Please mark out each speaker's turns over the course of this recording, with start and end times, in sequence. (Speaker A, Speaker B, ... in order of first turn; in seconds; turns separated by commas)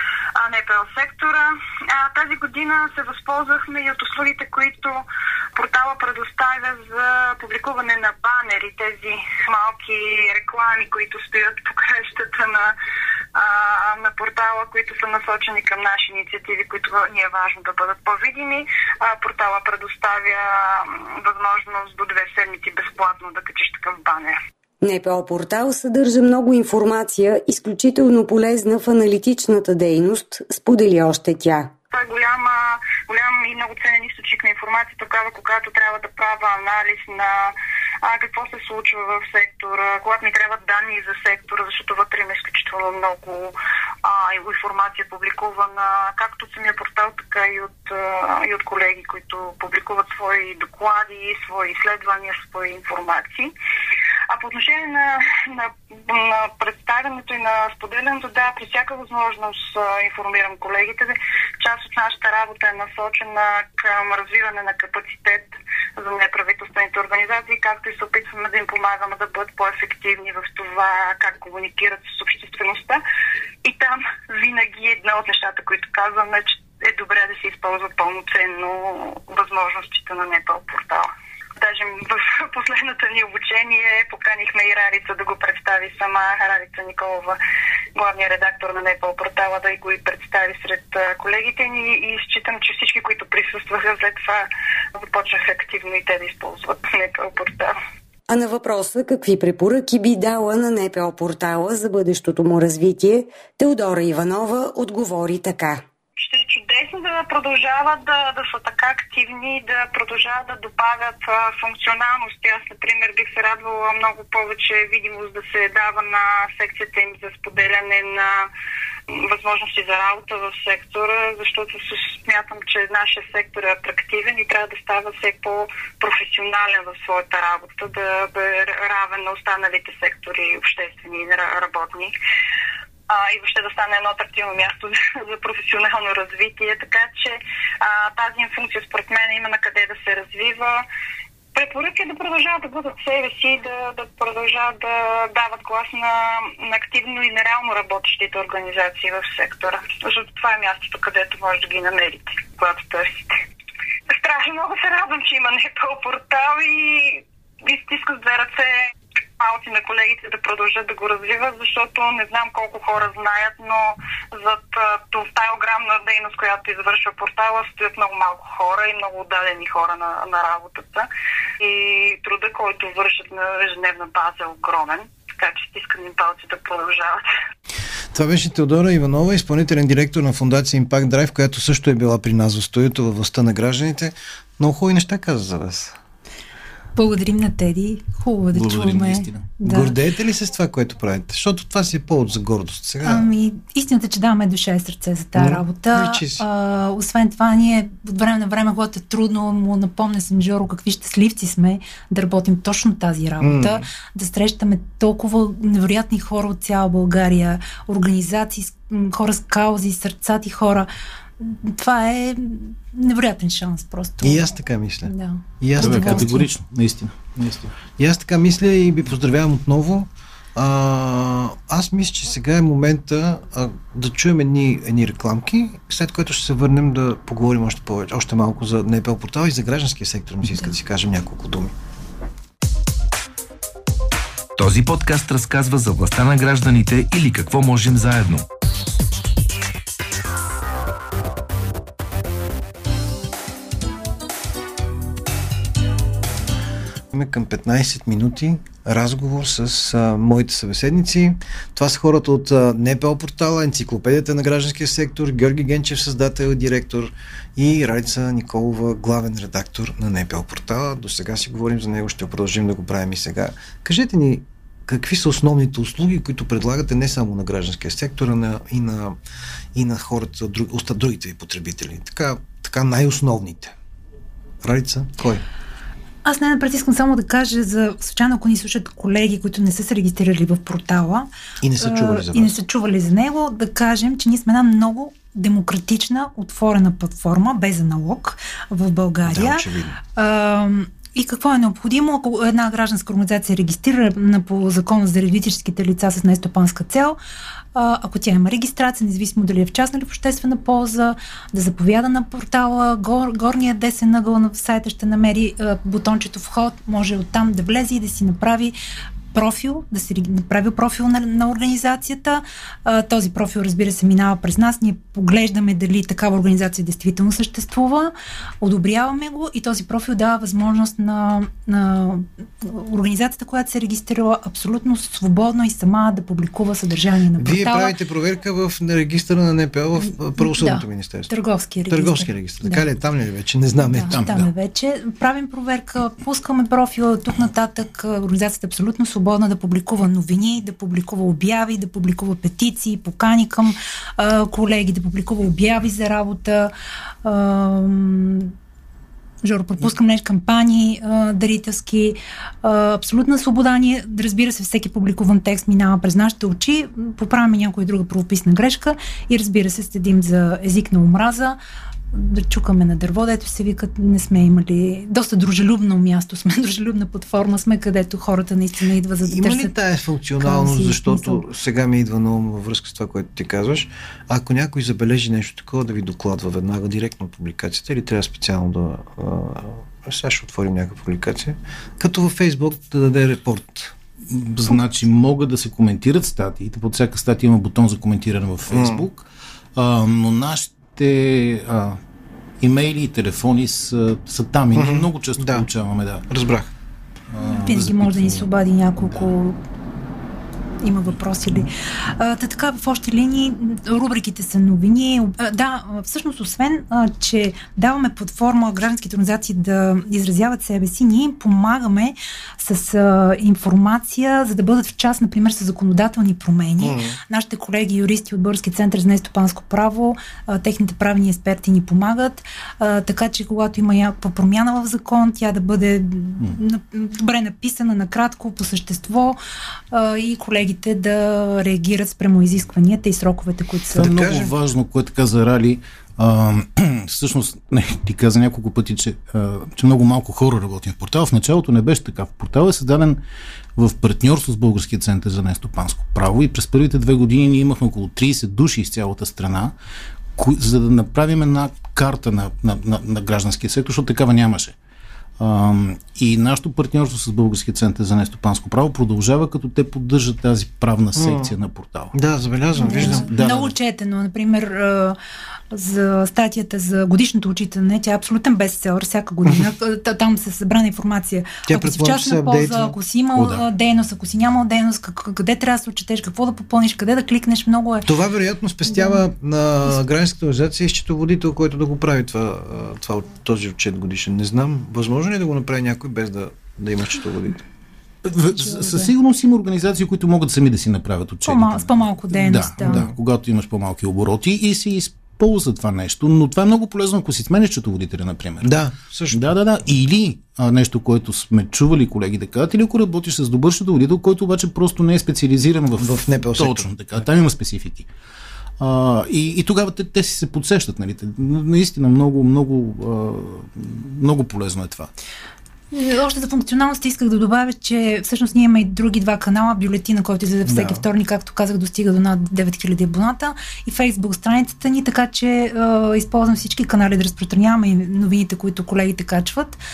Speaker A: 0.3-5.0, Speaker A: 5.5-12.7, Speaker A: 13.3-24.4, Speaker B: 24.8-31.7, Speaker A: 31.9-53.5, Speaker A: 54.3-73.0, Speaker A: 73.6-87.4, Speaker A: 87.9-97.8, Speaker B: 98.3-105.8, Speaker A: 106.2-118.5, Speaker A: 119.1-132.1, Speaker A: 133.1-140.8, Speaker A: 141.5-153.3, Speaker A: 154.1-171.1, Speaker A: 171.6-177.2, Speaker C: 178.1-185.9, Speaker D: 186.9-189.9, Speaker E: 188.5-189.4, Speaker C: 189.6-193.3, Speaker D: 193.0-210.9, Speaker C: 195.3-196.4, Speaker C: 203.4-203.8, Speaker D: 211.4-214.5, Speaker C: 214.2-216.4, Speaker D: 215.0-216.5, Speaker E: 215.8-217.7, Speaker C: 218.0-231.7, Speaker F: 234.6-238.4, Speaker C: 247.1-269.2, Speaker C: 269.7-273.7, Speaker C: 274.6-275.4, Speaker D: 276.2-281.3, Speaker C: 281.6-282.6, Speaker D: 281.8-297.2, Speaker C: 289.2-290.0, Speaker D: 297.7-308.7, Speaker D: 309.3-327.9, Speaker C: 327.4-331.3, Speaker D: 330.4-332.8, Speaker C: 331.9-334.2, Speaker D: 333.8-346.7, Speaker E: 334.1-334.5, Speaker D: 347.2-348.5, Speaker D: 349.4-361.6, Speaker D: 362.1-369.7, Speaker C: 369.2-383.9, Speaker D: 370.4-371.4, Speaker E: 384.3-392.0, Speaker C: 388.7-389.1, Speaker E: 392.6-396.2, Speaker C: 394.7-395.6, Speaker C: 396.3-396.7, Speaker E: 397.3-398.5, Speaker D: 397.4-399.6, Speaker E: 399.0-399.3, Speaker D: 400.8-429.4, Speaker C: 416.8-417.2, Speaker D: 429.9-434.1, Speaker C: 433.9-434.5, Speaker E: 433.9-443.2, Speaker E: 443.8-449.7, Speaker E: 450.4-454.7, Speaker E: 455.4-462.1, Speaker C: 461.1-461.5, Speaker C: 462.1-463.3, Speaker D: 462.8-465.2, Speaker E: 462.9-463.7, Speaker D: 465.7-478.1, Speaker C: 471.6-472.9, Speaker E: 473.4-473.6, Speaker C: 478.0-487.6, Speaker D: 478.9-479.2, Speaker E: 488.2-498.7, Speaker D: 488.5-489.1, Speaker D: 491.4-493.0, Speaker C: 492.8-493.1, Speaker C: 498.6-499.5, Speaker E: 499.3-508.1, Speaker C: 506.0-506.9, Speaker E: 508.8-515.1, Speaker D: 515.9-529.8, Speaker E: 520.6-521.0